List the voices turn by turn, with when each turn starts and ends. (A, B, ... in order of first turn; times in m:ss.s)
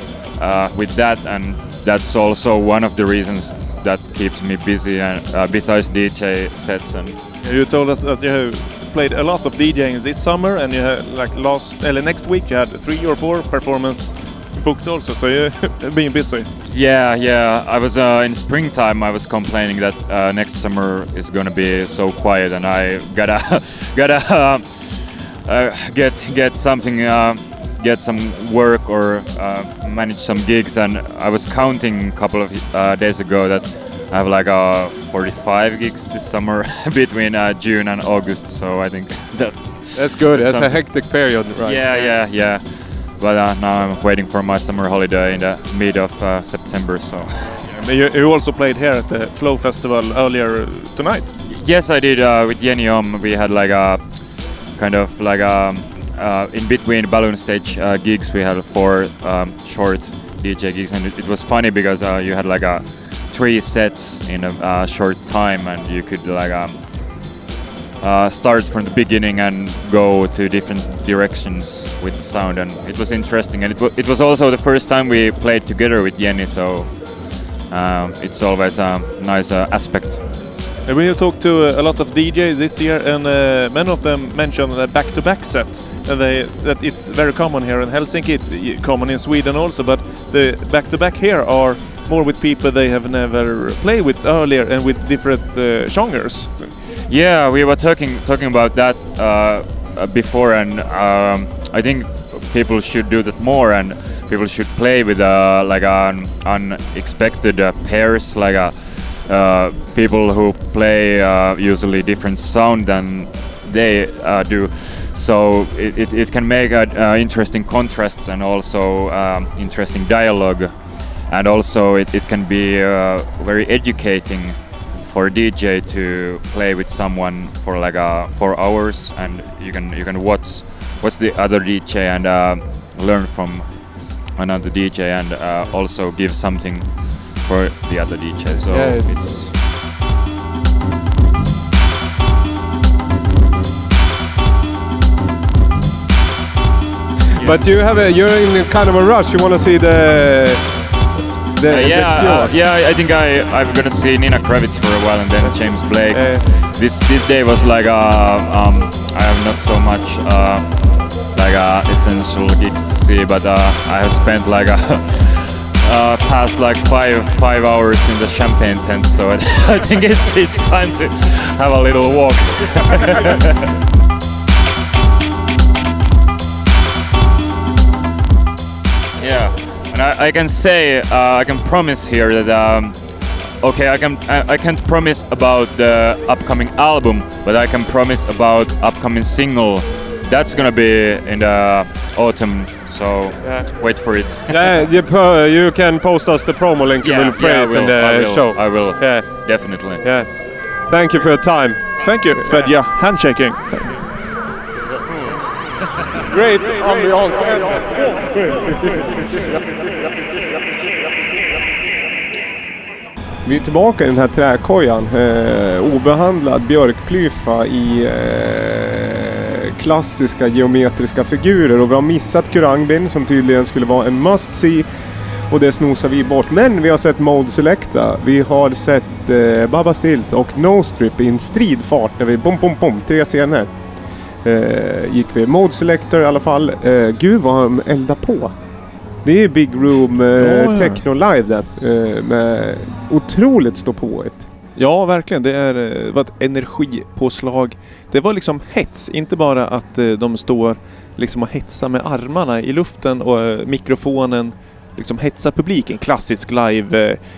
0:00.2-0:07.2 A
0:07.4-0:16.5 B
0:16.7-0:47.6 A
0:39.9-0:42.1 C
0:47.7-0:51.3 B
0:51.4-1:06.8 A
1:08.0-1:20.2 A
1:20.8-1:36.5 B
1:37.1-2:19.5 A
2:18.7-2:19.5 C
2:27.4-2:27.8 A
2:27.4-2:30.8 C
2:31.6-2:32.5 C
2:31.6-2:53.4 A
2:35.4-2:36.4 C
2:59.2-3:03.0 A
3:03.5-3:14.8 A
3:14.5-3:20.3 C
3:17.0-3:20.0 A
3:20.9-3:22.7 C
3:22.0-3:23.9 B
3:26.3-3:29.2 C
3:33.4-3:44.9 C
3:45.5-3:53.7 C
3:54.4-3:58.5 C
3:59.2-4:04.5 C
4:00.4-4:01.0 B
4:04.8-4:17.2 B